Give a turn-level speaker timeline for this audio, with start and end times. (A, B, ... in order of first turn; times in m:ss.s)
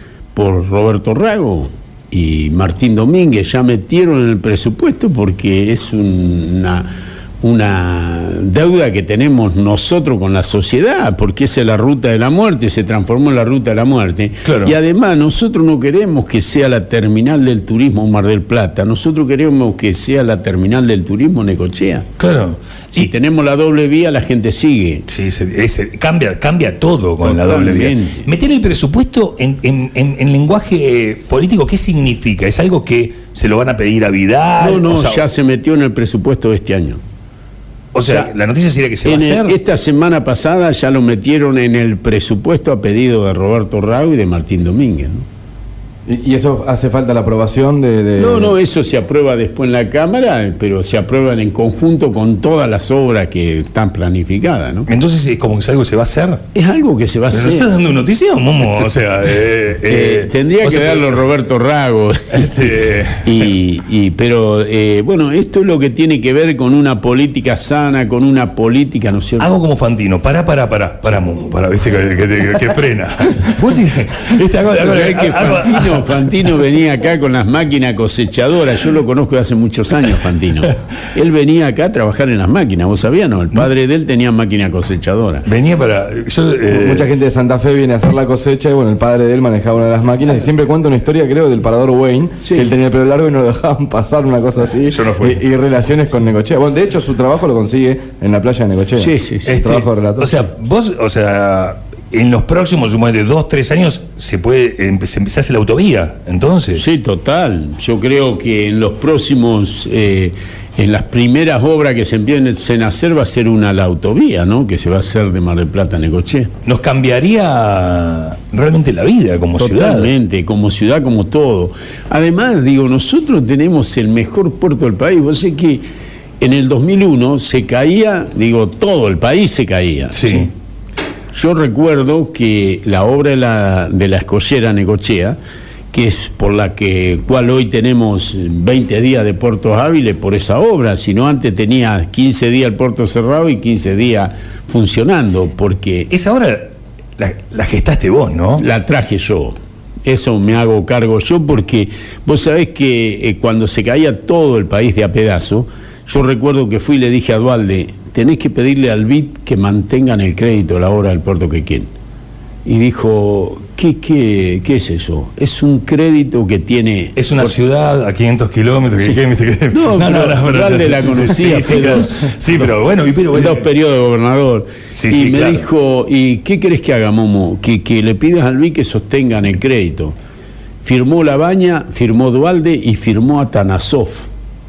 0:00.3-0:22.1 A
0:14.4-0:14.7 B
0:22.2-0:23.1 B
0:22.9-0:25.0 A
0:25.1-0:35.2 B
0:27.2-0:28.3 A
0:34.6-0:37.0 A
0:37.9-0:39.5 B
0:39.0-0:45.2 A
0:46.1-0:48.6 C
0:48.2-0:54.9 A
0:54.9-0:56.4 B
0:56.5-0:57.7 A
0:57.3-1:01.2 B
0:59.9-1:02.7 A
1:02.3-1:03.5 B
1:03.2-1:09.5 A
1:09.4-1:16.4 B
1:14.7-1:25.4 A
1:25.4-1:27.1 B
1:26.7-1:40.4 C
1:32.4-1:32.7 A
1:34.9-1:35.4 B
1:39.0-1:39.5 A
1:39.4-1:46.8 B
1:46.7-1:56.5 A
1:56.6-2:00.1 B
1:59.6-2:05.8 A
2:06.4-2:10.5 A
2:10.1-2:10.5 B
2:11.3-2:15.4 A
2:15.9-2:26.1 A
2:26.1-2:28.6 B
2:28.6-2:41.9 A
2:42.6-2:47.6 A
2:47.2-2:53.7 B
2:49.7-2:52.7 A
2:53.3-3:00.2 A
2:54.9-2:55.7 B
3:00.8-3:04.2 A